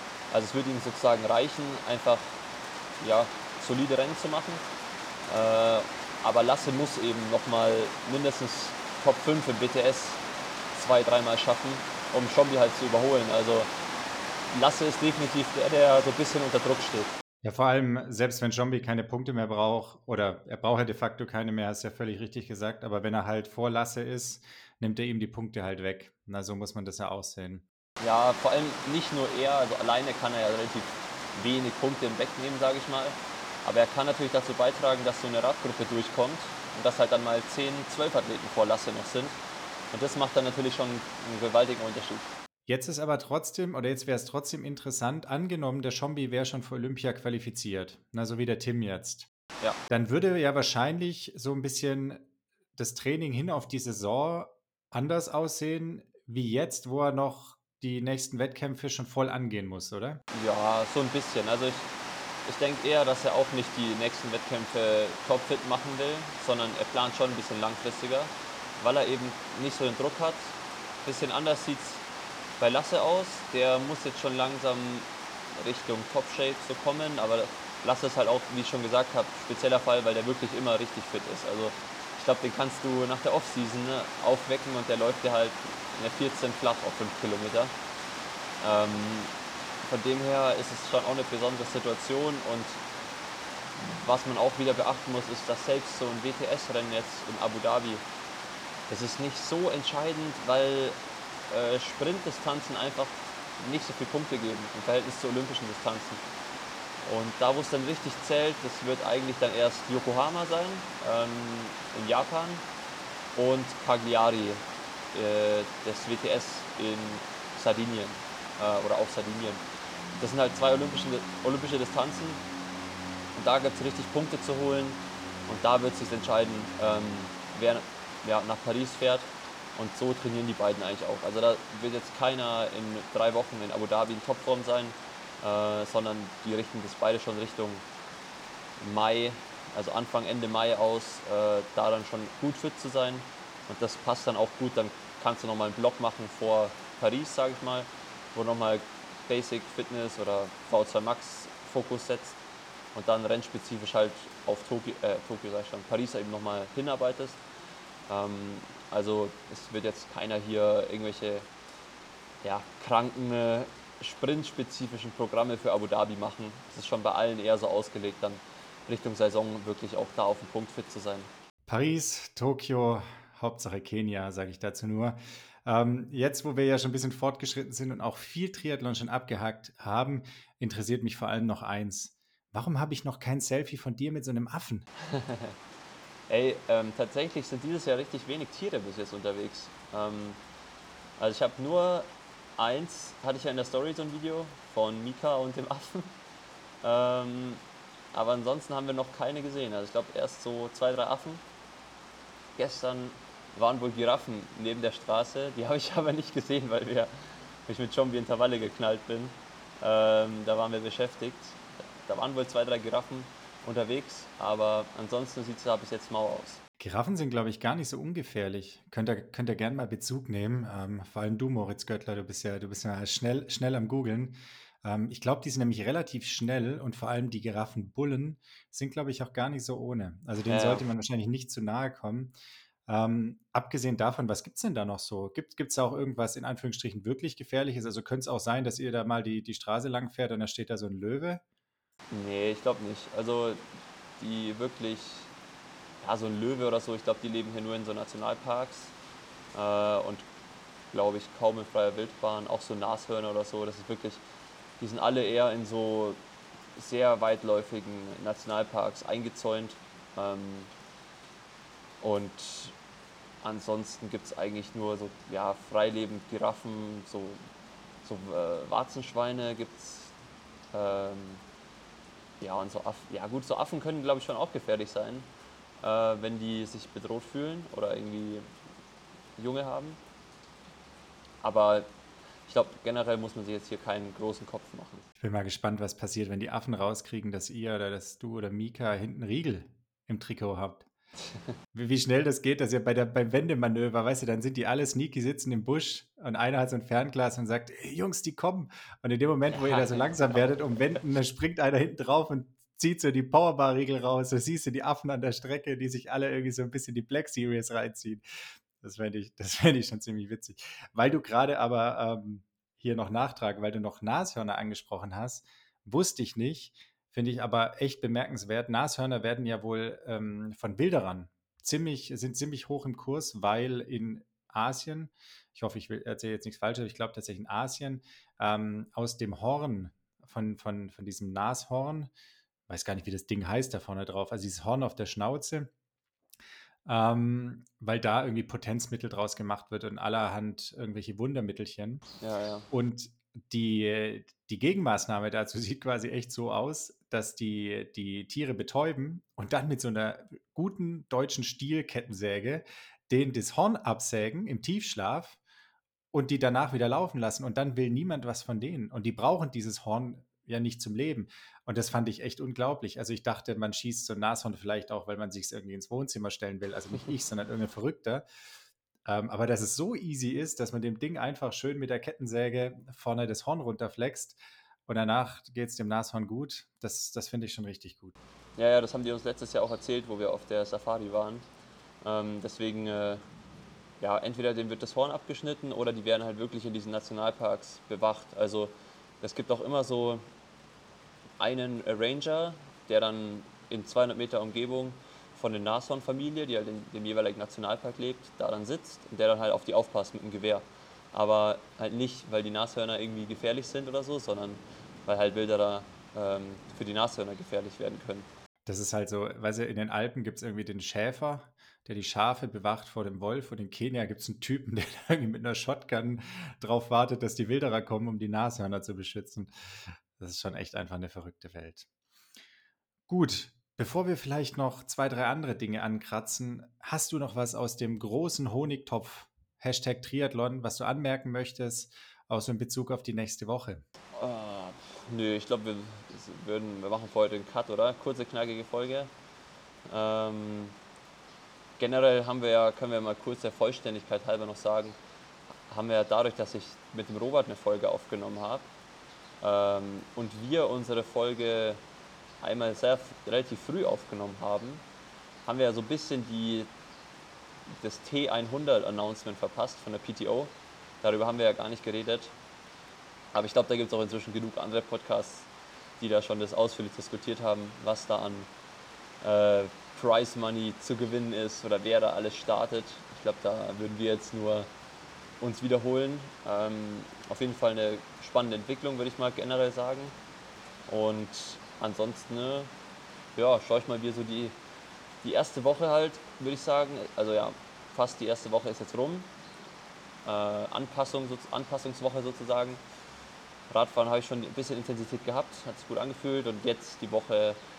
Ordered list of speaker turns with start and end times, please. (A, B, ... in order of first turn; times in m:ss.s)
0:00.3-0:02.4 A
0:03.0-0:04.6 A
0:05.3-0:10.2 A
0:10.7-0:13.7 A
0:14.5-0:17.2 A
0:17.4-0:27.6 B
0:28.0-0:39.4 A
0:39.9-0:42.3 A
0:42.7-0:49.3 B
0:49.9-1:00.2 B
1:00.3-1:01.9 A
1:02.5-1:12.0 A
1:12.6-1:27.7 A
1:28.6-1:29.3 A
1:29.8-1:32.8 A
1:33.8-1:38.0 A
1:38.9-1:41.0 A
1:41.5-1:46.2 A
1:47.0-1:52.6 A
1:53.4-1:59.6 A
2:00.2-2:02.4 A
2:03.4-2:17.8 A
2:18.8-2:32.4 A
2:32.9-2:37.4 A
2:38.1-2:41.5 A
2:42.4-2:51.3 A
2:51.7-3:04.9 B
3:05.0-3:05.6 A
3:06.3-3:10.4 A
3:11.2-3:16.2 A
3:16.8-3:17.6 A
3:18.1-3:21.4 A
3:22.6-3:27.1 A
3:27.7-3:36.6 A
3:36.8-3:52.3 B
3:50.5-3:50.8 A
3:52.9-4:01.4 B
4:02.1-4:03.6 A
4:04.2-4:05.3 A
4:06.0-4:09.0 A
4:09.5-4:10.3 A
4:10.9-4:14.2 A
4:14.8-4:16.2 A
4:16.8-4:20.7 A
4:22.0-4:22.8 A
4:23.4-4:27.4 A
4:28.0-4:30.1 A
4:30.7-4:31.4 A
4:32.4-4:35.3 A
4:35.8-4:38.5 A
4:39.4-4:40.0 A
4:41.4-4:41.9 A
4:42.5-4:45.1 A
4:45.2-4:50.9 B
4:51.7-5:08.2 B
4:59.5-5:01.0 A
5:08.8-5:32.1 B
5:32.7-5:35.7 B
5:36.9-5:42.0 B
5:42.2-5:42.7 A
5:42.7-5:55.4 B
5:56.1-6:08.2 B
6:09.0-6:18.2 B
6:18.6-6:21.5 A
6:22.0-6:23.2 A
6:24.0-6:30.3 A
6:31.4-6:48.3 A
6:48.7-7:01.9 B
7:03.1-7:13.8 B
7:14.2-7:19.1 A
7:19.9-7:20.8 A
7:21.8-7:25.0 A
7:25.7-7:28.7 A
7:29.4-7:31.8 A
7:32.4-7:34.8 A
7:35.4-7:36.7 A
7:37.7-7:42.3 A
7:43.3-7:48.5 A
7:49.2-7:54.7 A
7:55.4-8:00.2 A
8:00.9-8:02.7 A
8:03.4-8:04.6 A
8:05.2-8:09.3 A
8:10.2-8:12.8 A
8:13.7-8:17.6 A